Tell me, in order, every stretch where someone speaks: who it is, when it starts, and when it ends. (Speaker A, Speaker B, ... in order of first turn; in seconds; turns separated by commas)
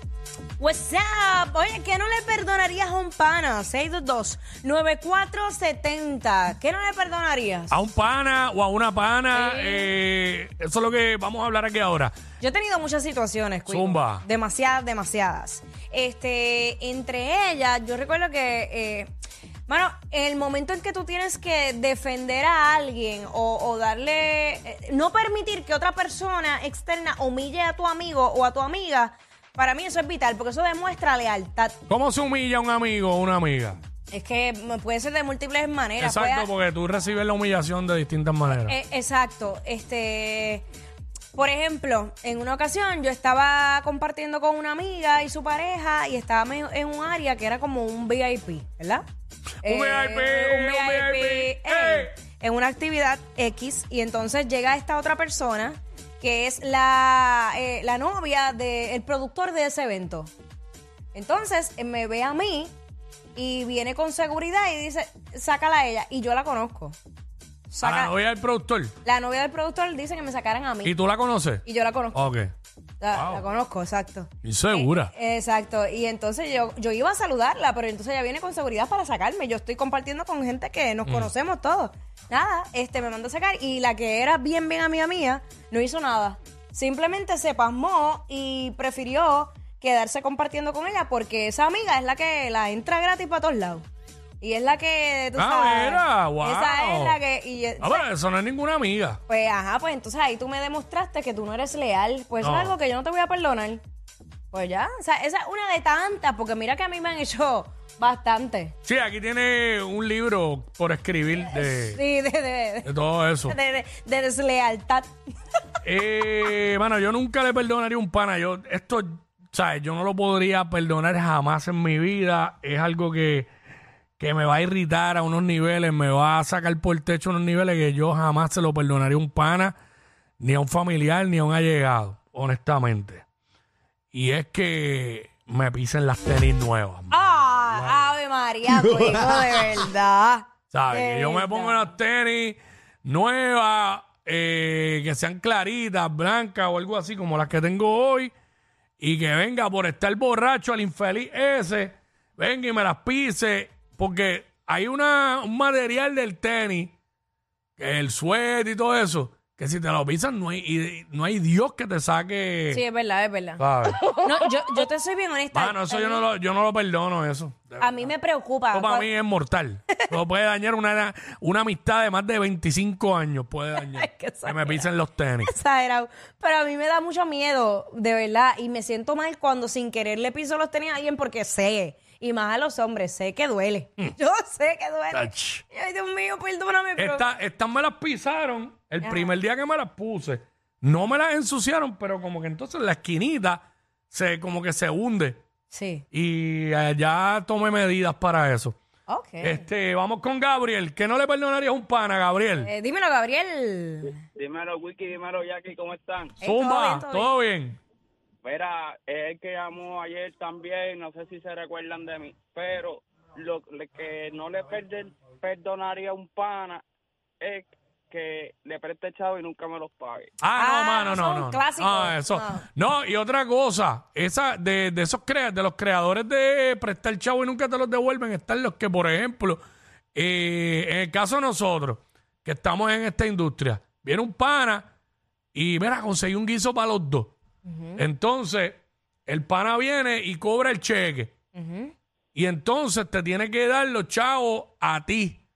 Speaker A: 0.6-7.8, Speaker B: 7.7-12.1, Speaker A: 9.3-9.9, Speaker A: 12.4-19.1, Speaker B: 13.7-14.2, Speaker A: 19.7-31.8, Speaker B: 31.9-33.8, Speaker A: 34.1-36.5, Speaker B: 36.0-38.7, Speaker A: 38.5-40.6, Speaker A: 41.3-49.0, Speaker B: 49.6-52.1, Speaker A: 49.6-60.3, Speaker A: 61.1-62.7, Speaker A: 63.3-67.0, Speaker A: 67.7-68.1, Speaker B: 67.8-68.9, Speaker A: 69.0-70.9, Speaker B: 70.8-71.6, Speaker A: 71.6-72.3, Speaker B: 72.1-72.5, Speaker A: 73.0-93.8, Speaker B: 73.1-73.4, Speaker B: 74.4-75.1, Speaker B: 81.0-81.3, Speaker A: 94.4-98.1, Speaker B: 95.3-97.2, Speaker B: 97.8-99.2, Speaker A: 99.3-103.8, Speaker B: 102.4-102.8, Speaker A: 104.5-108.8, Speaker B: 108.8-112.0, Speaker A: 111.5-112.9, Speaker B: 112.8-113.5, Speaker A: 113.5-115.1, Speaker B: 115.8-123.5, Speaker B: 124.2-129.8, Speaker B: 130.4-133.2, Speaker B: 134.1-138.1, Speaker A: 137.1-141.9, Speaker B: 140.7-148.3, Speaker B: 149.0-156.9, Speaker B: 157.8-162.8, Speaker A: 162.7-166.2, Speaker B: 163.6-164.0, Speaker B: 165.5-168.1, Speaker A: 167.8-169.1, Speaker B: 168.7-175.5, Speaker A: 173.8-174.9, Speaker A: 175.4-187.2, Speaker B: 185.1-185.6, Speaker B: 186.9-195.4, Speaker A: 189.0-189.4, Speaker A: 195.7-196.0, Speaker B: 196.1-198.8, Speaker A: 199.1-199.6, Speaker B: 199.4-202.7, Speaker A: 202.6-204.2, Speaker C: 204.3-206.4, Speaker A: 206.4-207.4, Speaker B: 206.4-207.8, Speaker C: 208.4-216.8, Speaker C: 217.4-220.3, Speaker B: 220.4-229.6, Speaker A: 220.6-222.7, Speaker B: 230.1-234.9, Speaker B: 235.5-237.4, Speaker A: 237.6-238.0, Speaker B: 237.9-241.3, Speaker A: 241.5-241.9, Speaker B: 242.3-245.4